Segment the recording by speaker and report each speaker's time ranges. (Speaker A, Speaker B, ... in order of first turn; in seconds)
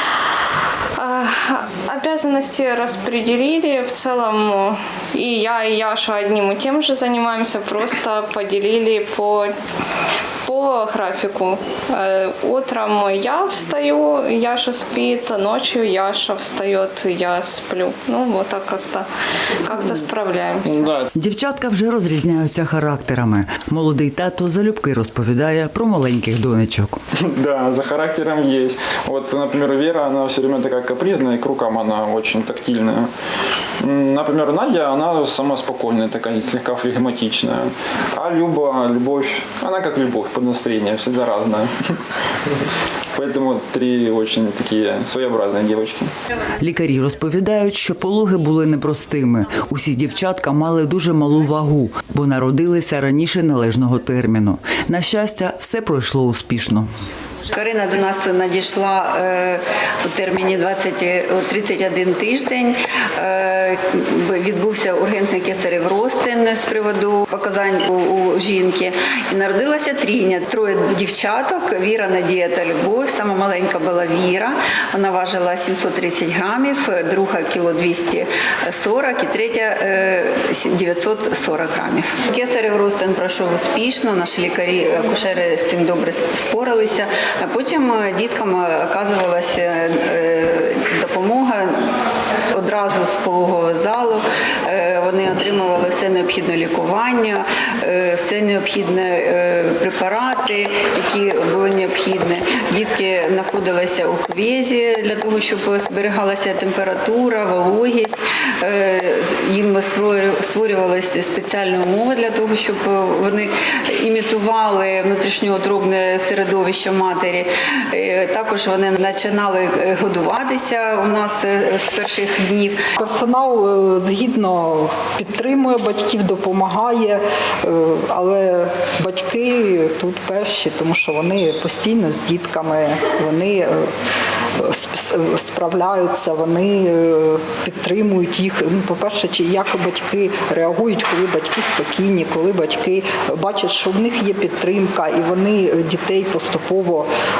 Speaker A: 1.0-9.5, 10.4-19.1, 19.6-20.8
Speaker B: 20.6-21.1, 27.2-33.1, 33.8-41.7, 43.1-46.1
Speaker C: 21.1-27.0, 46.6-56.9
Speaker D: 57.5-91.9, 92.5-122.8
Speaker E: 123.0-133.9, 134.6-147.1